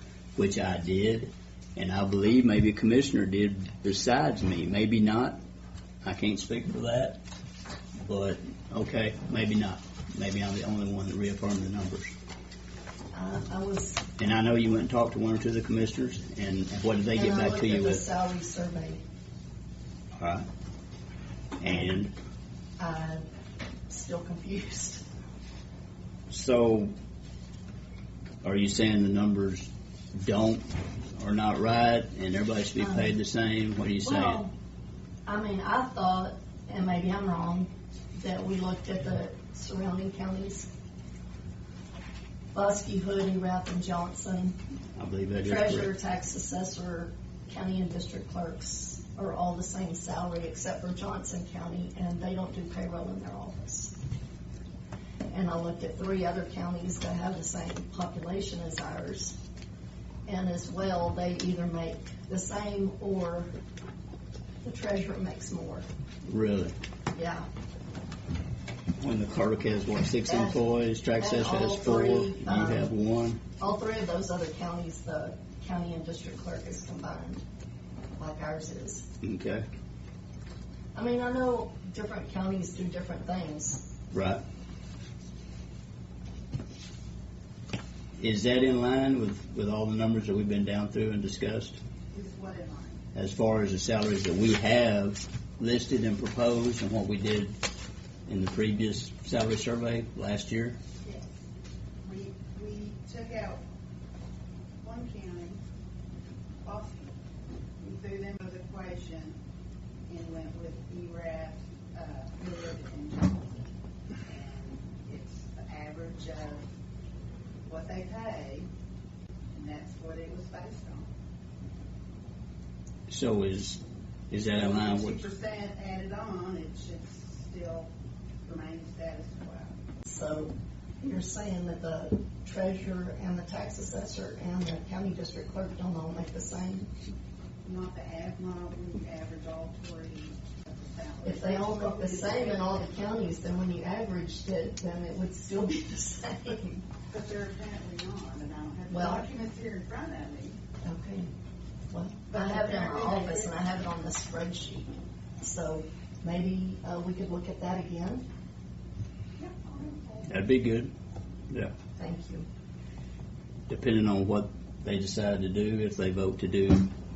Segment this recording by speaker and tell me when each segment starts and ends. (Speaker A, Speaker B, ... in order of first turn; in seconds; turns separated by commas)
Speaker A: 0.3-5.4, Speaker A: 6.0-7.2, Speaker A: 8.0-12.1, Speaker B: 13.1-14.0, Speaker A: 14.2-18.0, Speaker B: 17.1-19.0, Speaker A: 20.2-20.5, Speaker A: 21.6-22.1, Speaker B: 22.8-23.2, Speaker B: 23.9-25.0, Speaker A: 26.3-26.9, Speaker A: 28.4-34.4, Speaker B: 32.8-33.1, Speaker B: 34.0-34.5, Speaker B: 35.2-40.7, Speaker B: 42.5-44.5, Speaker A: 45.0-45.9, Speaker B: 45.4-53.9, Speaker B: 55.3-59.4, Speaker B: 60.2-63.5, Speaker B: 64.6-65.9, Speaker A: 66.2-66.7, Speaker B: 67.1-67.5, Speaker A: 69.0-73.4, Speaker B: 70.2-72.9, Speaker B: 73.6-77.4, Speaker B: 78.2-79.1, Speaker A: 79.2-79.6, Speaker B: 80.9-83.8, Speaker A: 84.1-84.4, Speaker A: 88.2-91.8, Speaker C: 92.1-93.0, Speaker A: 93.1-97.5, Speaker A: 98.3-100.8, Speaker C: 101.0-101.3, Speaker C: 102.0-103.6, Speaker C: 104.8-105.6, Speaker C: 106.6-107.1, Speaker C: 107.8-109.4, Speaker C: 110.1-113.7, Speaker C: 114.2-116.6, Speaker C: 117.7-118.7, Speaker C: 119.5-121.1, Speaker A: 123.1-125.2, Speaker C: 124.5-127.9, Speaker C: 128.4-129.7, Speaker B: 130.1-136.9, Speaker C: 137.6-142.8, Speaker B: 141.2-146.8, Speaker C: 147.1-150.6, Speaker B: 148.9-149.2, Speaker B: 150.8-151.3, Speaker B: 151.9-154.9, Speaker C: 152.3-153.5, Speaker B: 155.4-158.2, Speaker C: 159.4-160.3, Speaker A: 160.2-160.9, Speaker B: 162.0-162.4, Speaker A: 163.7-166.9